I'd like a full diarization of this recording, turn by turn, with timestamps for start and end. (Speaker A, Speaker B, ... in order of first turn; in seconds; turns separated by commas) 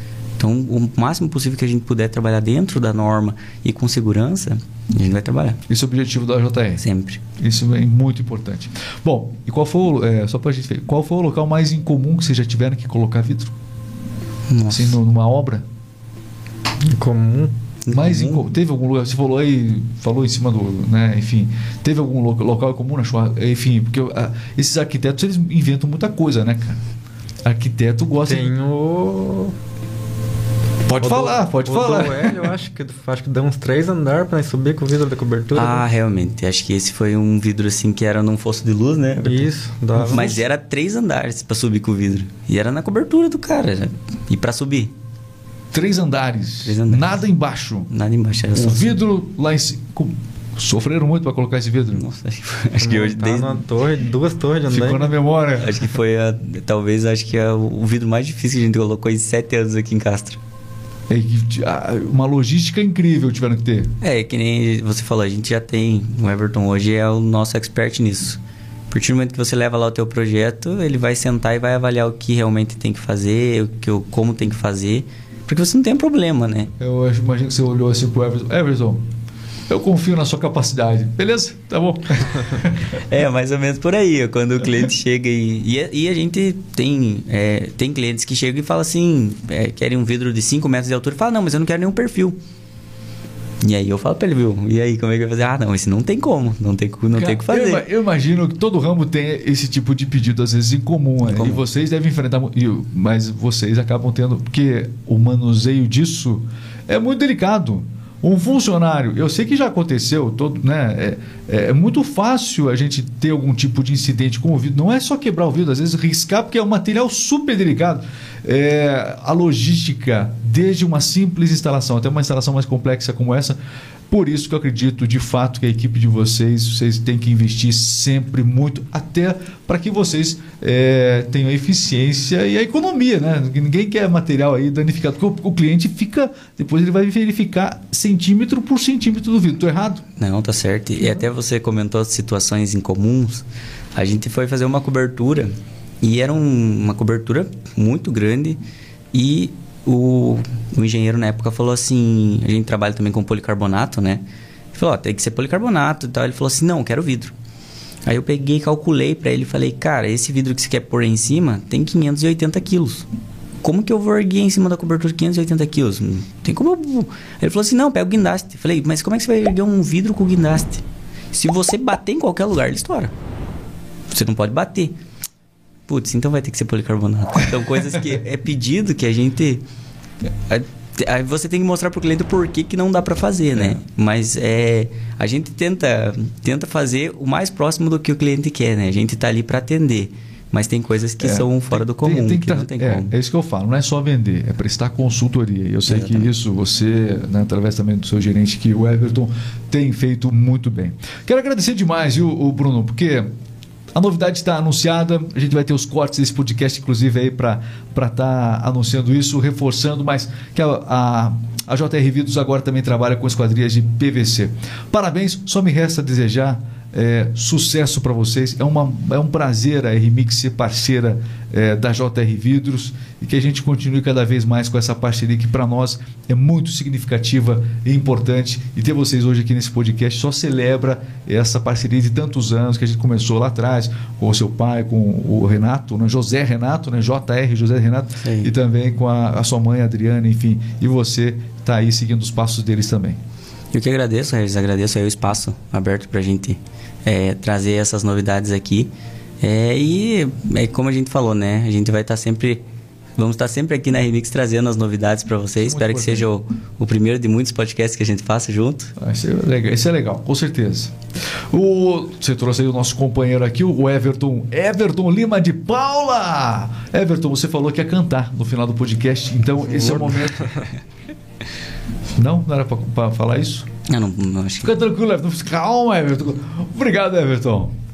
Speaker A: 0.4-5.6, Speaker B: 5.7-6.8, Speaker A: 6.8-7.2, Speaker B: 7.4-13.5, Speaker A: 14.5-15.0, Speaker B: 14.7-15.6, Speaker C: 16.8-17.5, Speaker A: 17.9-18.4, Speaker B: 17.9-26.8, Speaker B: 27.4-28.5, Speaker C: 28.2-29.5, Speaker B: 30.9-32.5, Speaker C: 31.0-35.9, Speaker A: 35.5-39.5, Speaker C: 39.2-40.4, Speaker B: 39.9-40.4, Speaker A: 40.1-44.9, Speaker B: 45.7-47.9, Speaker A: 46.6-47.2, Speaker A: 47.9-49.0, Speaker B: 48.5-52.0, Speaker A: 51.9-53.6, Speaker C: 52.8-55.1, Speaker B: 54.7-55.9, Speaker A: 55.6-60.4, Speaker B: 61.1-63.9, Speaker A: 64.0-68.4, Speaker A: 68.9-76.7, Speaker B: 76.8-79.0, Speaker B: 79.7-82.9, Speaker A: 82.9-92.4, Speaker A: 93.6-97.8, Speaker B: 97.1-123.6, Speaker A: 101.3-101.6, Speaker B: 124.1-140.0, Speaker A: 140.2-148.6, Speaker A: 149.1-157.3, Speaker A: 158.1-163.1, Speaker A: 163.6-173.1, Speaker A: 174.1-174.9, Speaker A: 175.9-179.6, Speaker A: 180.5-193.1, Speaker B: 183.5-183.8, Speaker B: 191.2-203.3, Speaker A: 195.9-196.3, Speaker B: 203.9-243.2, Speaker A: 238.2-238.5, Speaker A: 243.7-252.6, Speaker A: 253.2-258.9, Speaker B: 255.6-256.3, Speaker B: 259.0-260.9, Speaker B: 261.5-270.6, Speaker C: 269.7-270.6, Speaker B: 272.2-273.7, Speaker A: 273.9-274.7, Speaker B: 274.6-277.7